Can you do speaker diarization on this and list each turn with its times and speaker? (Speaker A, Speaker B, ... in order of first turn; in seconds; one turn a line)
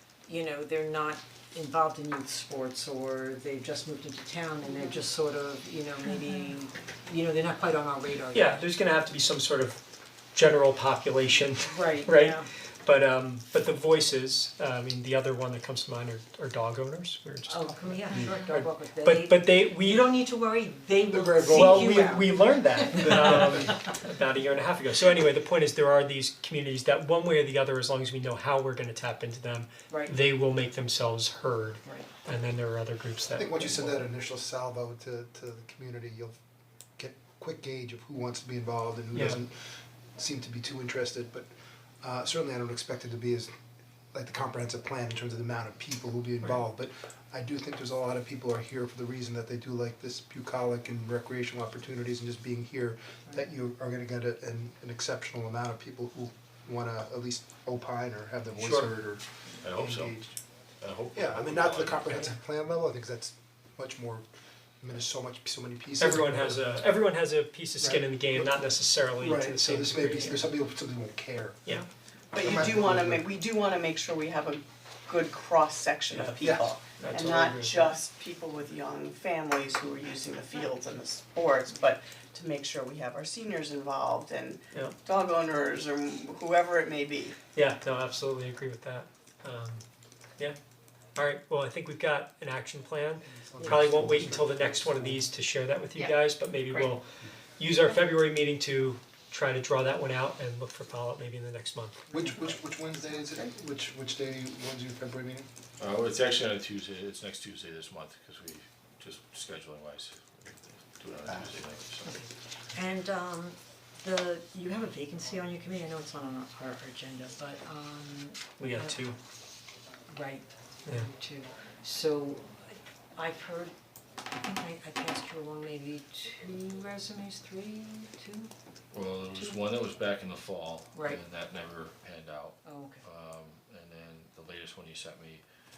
Speaker A: 0.3-8.6
Speaker B: 8.3-9.8
Speaker B: 10.3-20.0
Speaker A: 11.7-12.5
Speaker A: 17.5-23.7
Speaker C: 21.1-22.2
Speaker B: 21.5-34.0
Speaker A: 29.9-30.1
Speaker C: 33.3-36.4
Speaker C: 37.0-39.5
Speaker C: 40.1-41.5
Speaker C: 42.0-43.5
Speaker C: 44.1-60.4
Speaker B: 58.6-58.9
Speaker D: 59.6-60.2
Speaker D: 60.8-62.3
Speaker C: 61.1-64.3
Speaker C: 64.8-66.7
Speaker B: 66.0-70.5
Speaker C: 67.8-68.7
Speaker C: 69.2-71.8
Speaker E: 72.3-87.4
Speaker C: 72.4-73.2
Speaker B: 76.1-77.9
Speaker C: 76.4-76.7
Speaker B: 84.7-85.0
Speaker B: 87.5-89.8
Speaker B: 91.2-102.0
Speaker C: 93.2-95.2
Speaker C: 102.1-105.5
Speaker D: 105.8-112.1
Speaker A: 112.1-119.0
Speaker B: 118.6-119.2
Speaker A: 120.1-123.7
Speaker A: 124.3-128.5
Speaker D: 128.9-135.4
Speaker A: 129.2-129.7
Speaker A: 130.9-131.2
Speaker A: 132.6-133.0